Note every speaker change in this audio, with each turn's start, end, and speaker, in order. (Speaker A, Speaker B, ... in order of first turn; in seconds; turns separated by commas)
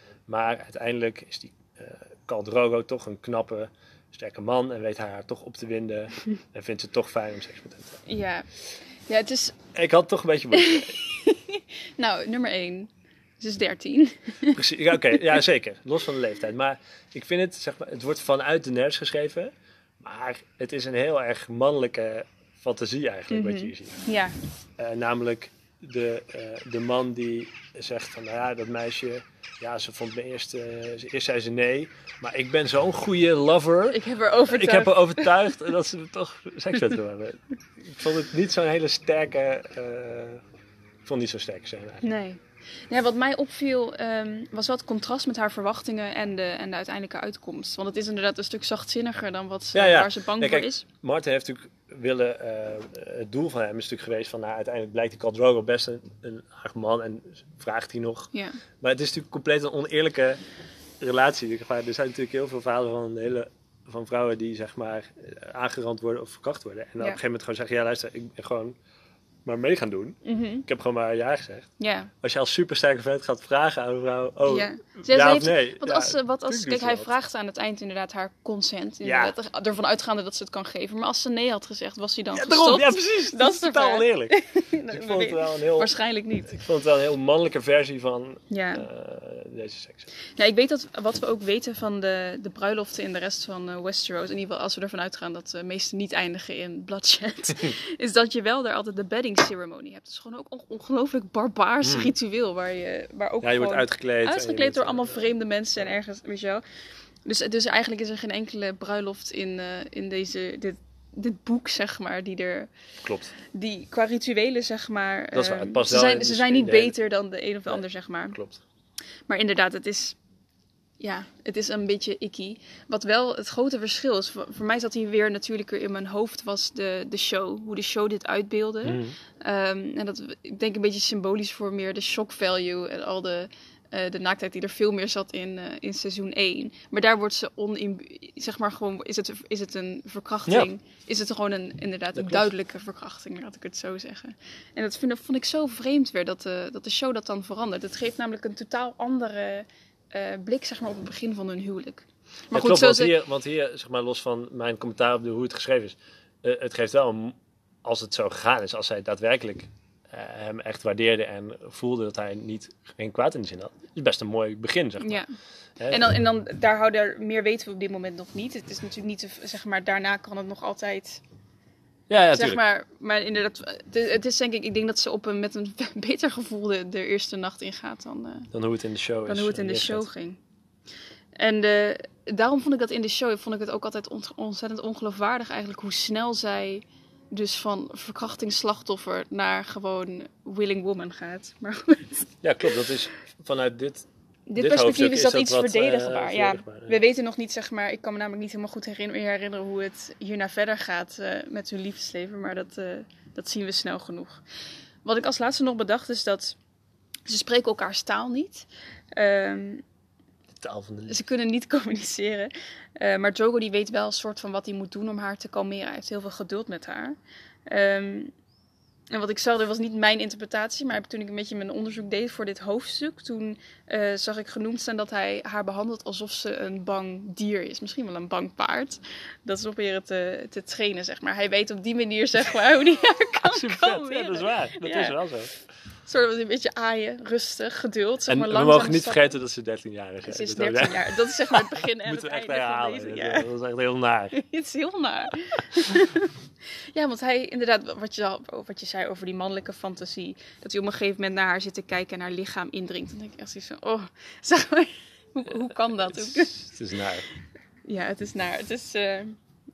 Speaker A: 0.3-8.0, Speaker B: 8.1-8.5, Speaker B: 9.1-9.6, Speaker A: 9.7-11.0, Speaker B: 10.5-14.6, Speaker A: 14.5-24.1, Speaker B: 23.3-24.4, Speaker A: 24.8-40.4, Speaker B: 33.9-35.5, Speaker A: 41.1-42.0, Speaker B: 42.0-50.9, Speaker A: 49.7-60.4, Speaker B: 58.3-58.6, Speaker A: 61.0-68.8, Speaker A: 69.5-71.7, Speaker B: 70.2-70.7, Speaker B: 71.8-72.1, Speaker A: 72.2-77.1, Speaker B: 74.5-86.5, Speaker A: 79.0-79.3, Speaker A: 82.3-85.9, Speaker A: 86.5-90.1, Speaker B: 88.5-88.9, Speaker B: 90.3-106.6, Speaker A: 101.8-102.1, Speaker A: 103.4-105.3, Speaker B: 107.2-112.7, Speaker A: 113.0-113.3, Speaker B: 113.5-118.4, Speaker A: 115.3-117.0, Speaker A: 117.7-118.6, Speaker B: 119.3-120.2, Speaker B: 121.0-153.1, Speaker A: 128.8-129.2, Speaker A: 142.2-142.5, Speaker A: 152.5-165.2, Speaker B: 165.0-165.3, Speaker A: 165.8-166.1, Speaker B: 165.9-171.2, Speaker A: 172.1-172.6, Speaker B: 172.3-178.5, Speaker A: 178.5-180.1, Speaker B: 179.3-180.4, Speaker B: 181.4-192.3, Speaker A: 192.4-197.0, Speaker B: 194.5-204.4, Speaker B: 205.0-206.6, Speaker B: 207.3-209.8, Speaker A: 210.6-211.2, Speaker B: 211.1-218.3, Speaker B: 219.1-235.2, Speaker A: 233.5-235.5, Speaker B: 236.1-239.4, Speaker A: 238.3-244.4, Speaker B: 240.2-243.5, Speaker B: 244.3-256.6, Speaker A: 256.1-257.3, Speaker B: 257.9-259.4